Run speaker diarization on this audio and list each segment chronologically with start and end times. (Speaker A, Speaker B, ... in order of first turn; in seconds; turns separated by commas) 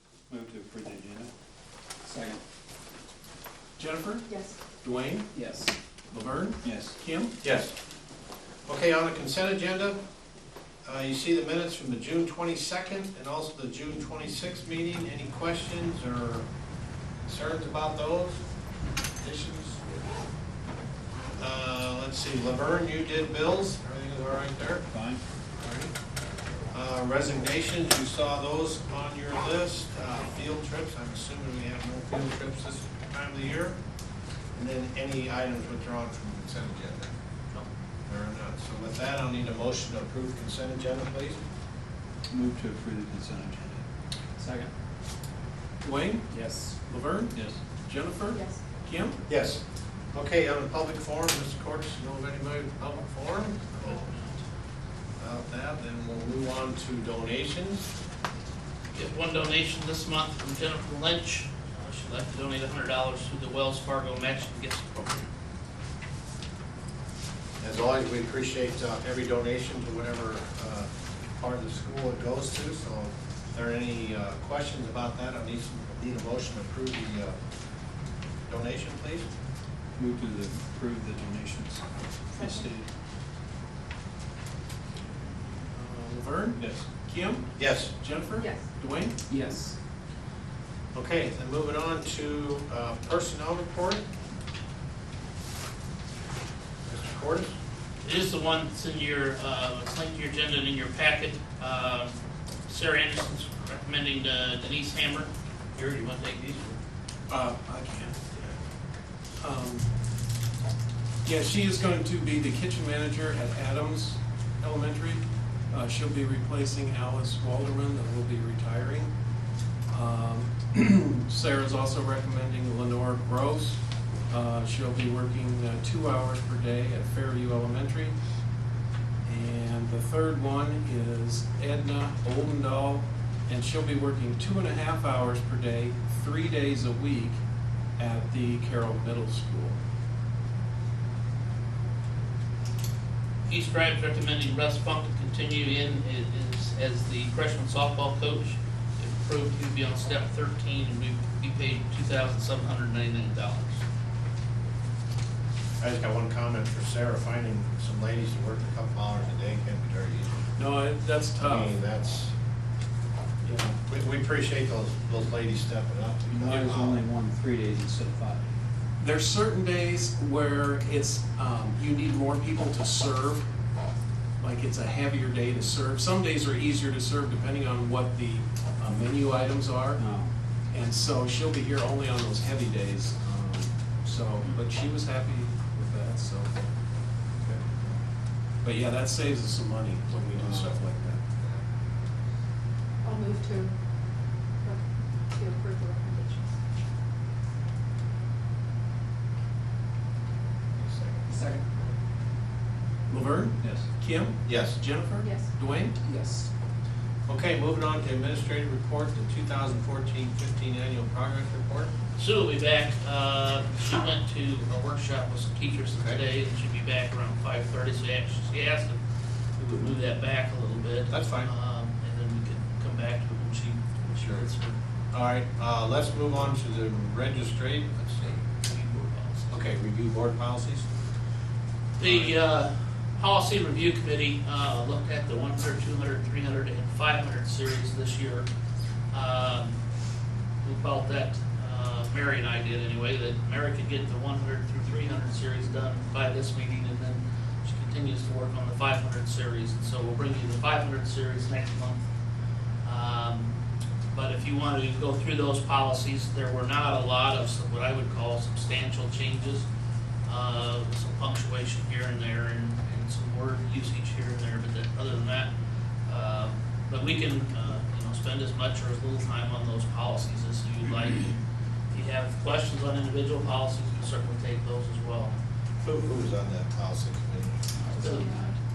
Speaker A: 0.3-1.3, Speaker A: 2.0-2.4, Speaker B: 3.8-4.3, Speaker C: 4.3-4.6, Speaker B: 4.8-5.3, Speaker A: 5.3-5.7, Speaker B: 6.1-7.4, Speaker A: 6.6-7.0, Speaker D: 7.4-7.7, Speaker D: 8.7-10.0, Speaker D: 10.8-16.5, Speaker D: 17.2-18.4, Speaker D: 19.2-19.8, Speaker D: 21.4-24.9, Speaker A: 24.9-25.2, Speaker D: 25.6-25.9, Speaker D: 26.7-33.8, Speaker D: 34.5-37.1, Speaker D: 38.1-41.4, Speaker A: 42.3-43.8, Speaker A: 44.4-44.7, Speaker B: 45.8-49.2, Speaker A: 46.3-46.8, Speaker A: 47.3-47.6, Speaker C: 48.3-48.6, Speaker D: 49.3-49.6, Speaker D: 50.1-54.1, Speaker E: 53.8-54.3, Speaker D: 55.2-57.9, Speaker E: 58.9-65.3, Speaker D: 67.6-77.3, Speaker D: 78.5-79.3, Speaker A: 80.0-82.9, Speaker C: 82.3-82.6, Speaker B: 85.7-89.2, Speaker A: 86.6-86.9, Speaker D: 87.6-87.9, Speaker C: 88.4-88.7, Speaker A: 89.3-89.8, Speaker D: 90.9-94.0, Speaker D: 96.8-97.5, Speaker E: 98.0-102.2, Speaker E: 102.7-106.8, Speaker B: 107.3-108.5, Speaker B: 109.4-109.9, Speaker B: 111.2-119.1, Speaker B: 119.9-128.2, Speaker B: 129.2-137.4, Speaker B: 138.0-139.8, Speaker E: 143.4-153.8, Speaker D: 155.8-160.3, Speaker B: 160.6-161.7, Speaker D: 161.4-162.3, Speaker D: 163.5-167.0, Speaker A: 166.3-168.5, Speaker B: 169.0-173.4, Speaker B: 174.4-180.0, Speaker A: 180.0-180.3, Speaker B: 180.7-186.7, Speaker B: 188.6-191.2, Speaker D: 190.2-190.8, Speaker C: 193.0-193.7, Speaker C: 194.6-196.5, Speaker D: 200.8-201.2, Speaker B: 203.1-206.0, Speaker A: 203.6-203.9, Speaker D: 204.4-204.8, Speaker C: 205.2-205.5, Speaker A: 206.0-206.5, Speaker D: 207.3-211.9, Speaker E: 212.2-219.0, Speaker D: 215.9-216.2, Speaker E: 219.6-224.8, Speaker D: 221.1-221.5, Speaker D: 224.2-224.5, Speaker D: 225.1-228.4, Speaker E: 228.4-229.6, Speaker D: 229.5-230.9, Speaker E: 232.0-238.5, Speaker D: 232.0-232.3, Speaker E: 239.1-239.8, Speaker E: 240.6-252.1, Speaker E: 252.8-253.5, Speaker E: 254.1-259.6, Speaker E: 260.2-265.5, Speaker E: 266.1-271.4, Speaker E: 271.9-275.3, Speaker D: 275.8-277.6, Speaker C: 277.8-278.6, Speaker E: 278.0-278.3